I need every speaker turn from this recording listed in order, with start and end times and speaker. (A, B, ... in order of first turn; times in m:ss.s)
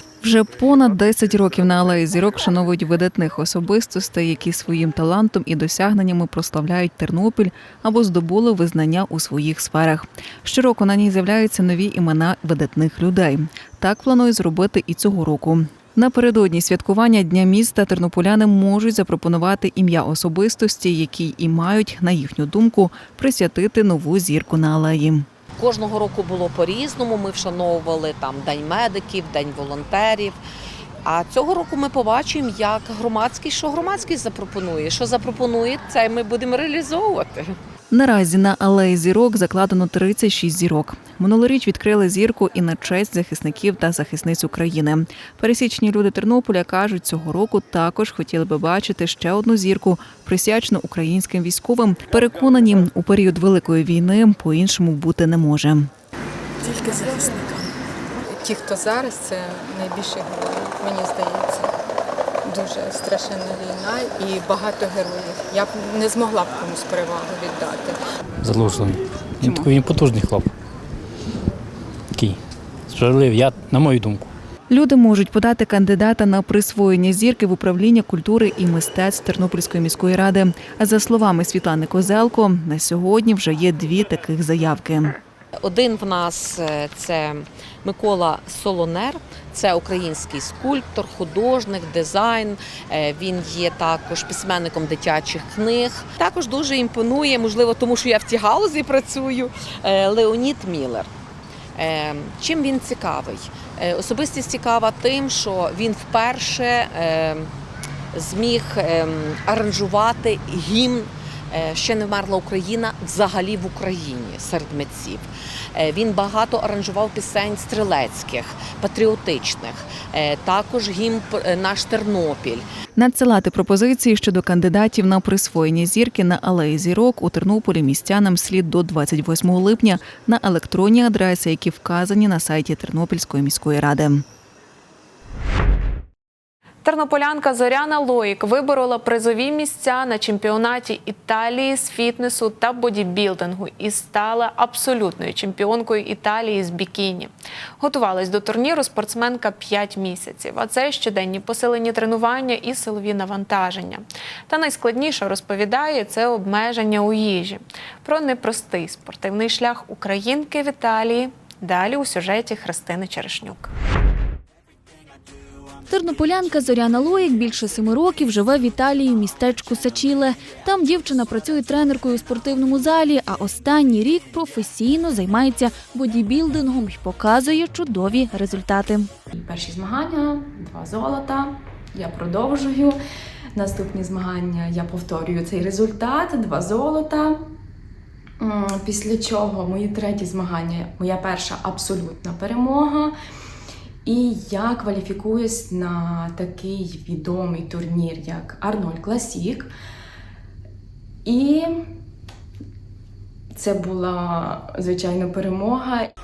0:00.2-0:25.3 A
0:25.6-0:30.4 B
0:31.0-0:37.6 B
0:37.9-0:55.9 A
0:56.6-0:57.7 C
0:58.3-1:01.7 C
1:02.4-1:08.0 C
1:08.4-1:10.5 D
1:12.9-1:14.3 D
1:14.7-1:25.2 A
1:25.6-1:41.1 B
1:41.8-1:47.5 B
1:48.1-2:02.6 B
2:02.9-2:14.2 A
2:16.8-2:43.7 E
2:45.9-2:59.1 F
2:59.3-3:03.0 G
3:03.5-3:07.4 G
3:08.4-3:13.1 G
3:14.0-3:19.7 G
3:21.2-3:21.8 G
3:23.5-3:26.1 G